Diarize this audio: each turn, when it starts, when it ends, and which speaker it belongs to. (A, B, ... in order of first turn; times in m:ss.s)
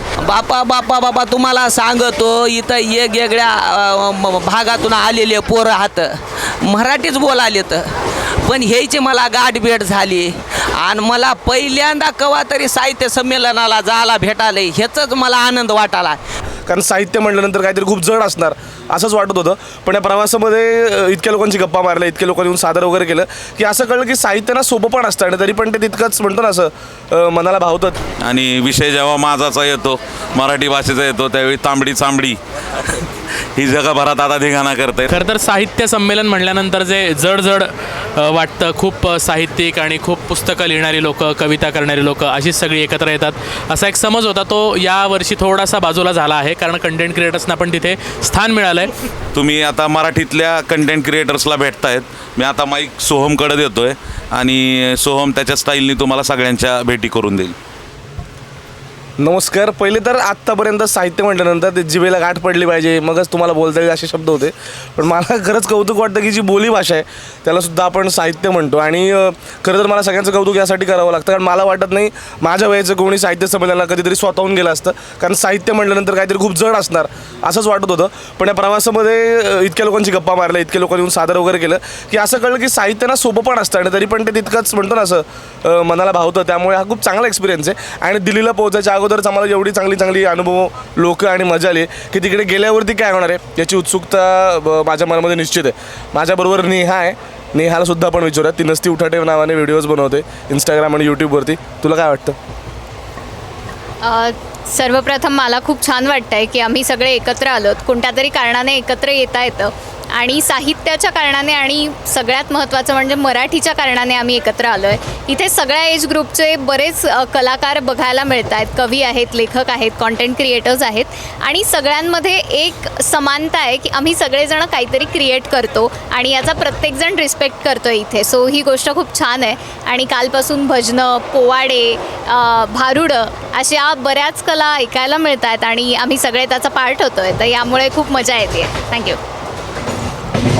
0:07.0-0:07.5 A
0:08.7-0:09.9 A
0:10.9-0:15.9 A
0:16.7-0:28.0 B
0:28.2-0:32.4 C
0:33.6-0:35.1 C
0:35.1-0:48.9 D
0:49.4-0:57.5 C
0:59.2-1:42.4 B
1:44.0-2:19.2 E